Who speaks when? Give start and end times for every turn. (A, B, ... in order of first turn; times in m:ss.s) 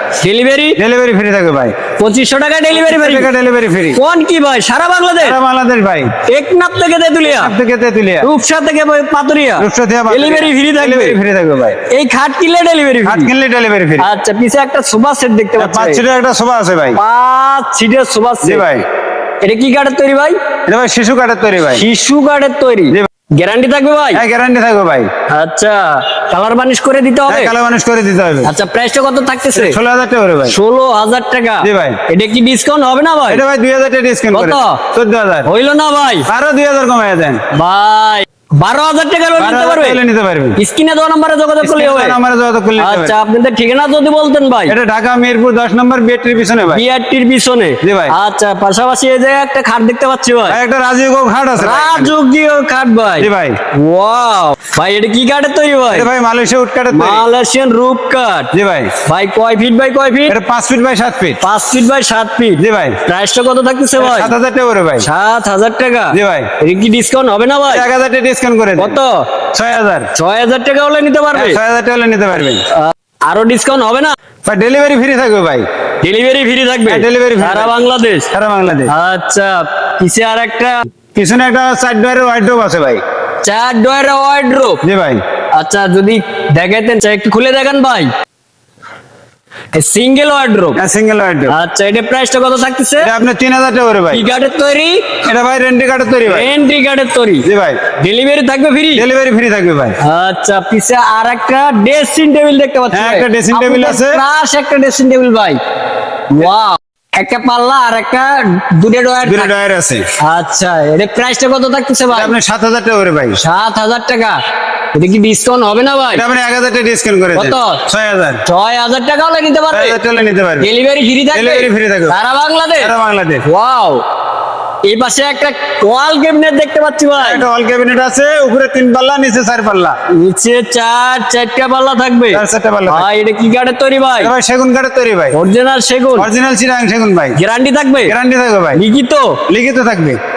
0:00.2-0:00.8 A
0:00.8-0:01.8 B
0:02.0-0:03.3 A
0:02.7-0:04.0 B
0:03.9-0:05.4 A
0:05.2-0:06.2 B
0:06.3-0:07.5 A
0:07.2-0:08.3 B
0:08.2-0:11.2 A
0:09.6-0:11.8 B
0:11.9-0:13.3 A
0:13.0-0:14.1 B
0:14.0-0:16.0 A
0:15.6-0:17.0 B
0:17.0-0:18.7 A
0:18.4-0:18.8 B
0:19.4-0:20.4 A
0:20.7-0:21.8 B
0:21.7-0:24.2 A
0:24.1-0:25.1 B
0:25.3-0:27.5 A
0:27.3-0:28.5 B
0:28.4-0:29.8 A
0:29.5-0:30.6 B
0:30.5-0:33.4 A
0:31.6-0:32.0 B
0:33.3-0:35.5 B
0:34.3-0:34.8 A
0:35.5-0:36.3 A
0:36.3-0:37.4 B
0:37.5-0:40.0 A
0:39.4-0:40.6 B
0:40.6-0:42.2 A
0:41.6-0:43.2 B
0:42.8-0:44.8 A
0:44.7-0:46.8 B
0:46.7-0:50.6 A
0:47.8-0:48.2 B
0:50.5-0:52.2 B
0:51.6-0:56.1 A
0:53.2-0:53.6 B
0:55.9-0:57.2 B
0:56.9-0:58.5 A
0:58.5-0:58.9 B
0:59.0-1:00.4 A
1:00.3-1:01.4 B
1:01.4-1:04.3 A
1:02.6-1:03.0 B
1:04.0-1:05.1 B
1:05.0-1:07.8 A
1:06.1-1:06.5 B
1:07.7-1:09.0 B
1:08.8-1:09.2 A
1:09.5-1:10.1 B
1:10.1-1:11.6 A
1:11.3-1:12.6 B
1:12.7-1:14.2 A
1:14.4-1:15.7 B
1:16.0-1:18.3 A
1:16.9-1:17.7 B
1:18.3-1:18.9 B
1:18.9-1:20.8 A
1:21.2-1:23.0 B
1:23.4-1:24.8 A
1:24.8-1:25.2 B
1:25.6-1:28.1 A
1:29.8-1:30.8 A
1:30.8-1:31.5 B
1:31.5-1:33.1 A
1:33.0-1:34.3 B
1:34.1-1:35.2 A
1:35.2-1:36.5 B
1:36.3-1:39.0 A
1:37.4-1:37.8 B
1:39.0-1:40.0 B
1:40.0-1:45.6 A
1:42.9-1:44.2 B
1:46.3-1:49.5 A
1:49.2-1:50.1 B
1:50.2-1:52.3 A
1:52.1-1:53.4 B
1:53.4-1:54.4 A
1:54.9-1:56.2 A
1:56.1-1:58.4 B
1:57.3-1:57.8 A
1:58.5-2:00.0 A
1:59.7-2:00.7 B
2:00.6-2:02.9 A
2:01.3-2:02.2 B
2:02.8-2:03.5 B
2:03.4-2:04.0 A
2:04.8-2:07.4 A
2:07.2-2:10.0 B
2:10.1-2:14.3 A
2:12.3-2:13.1 B
2:14.2-2:15.4 B
2:15.3-2:16.3 A
2:16.2-2:17.4 B
2:17.4-2:18.1 A
2:18.1-2:18.8 B
2:18.7-2:19.4 A
2:19.5-2:20.2 B